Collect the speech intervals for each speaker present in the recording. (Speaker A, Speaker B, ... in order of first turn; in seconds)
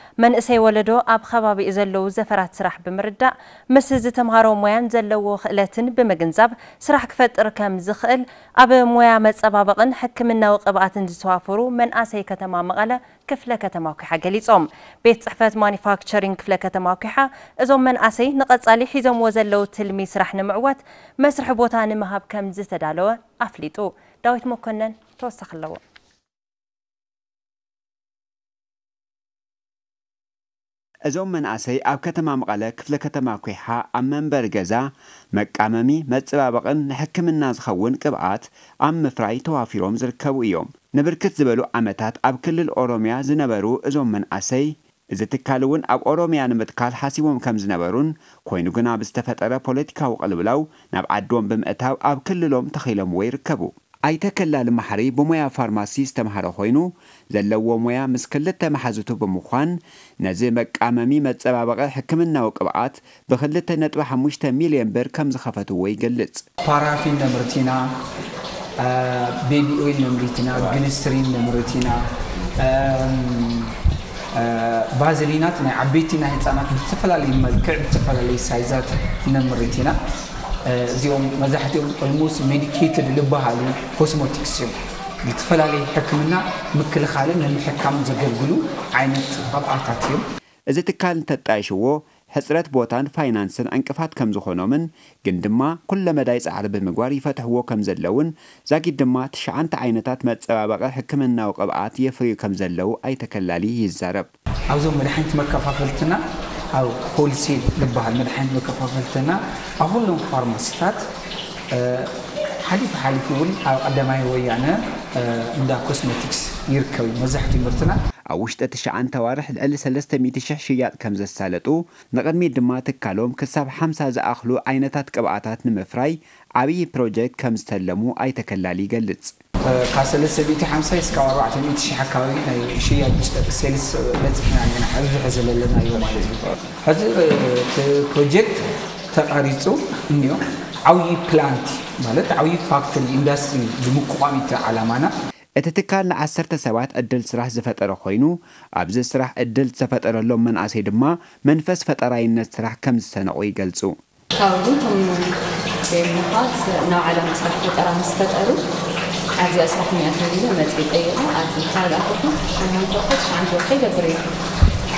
Speaker A: 0.2-25.8
Speaker B: 31.1-66.4, 90.7-104.3, 118.3-129.3, 145.6-153.9
Speaker C: 66.7-67.9, 68.8-72.0, 72.6-73.7, 74.3-80.0, 80.7-90.2, 104.7-106.2, 106.7-111.0, 111.7-112.1, 112.7-118.0, 129.7-145.1
Speaker D: 154.4-155.2, 155.9-158.6, 159.4-164.2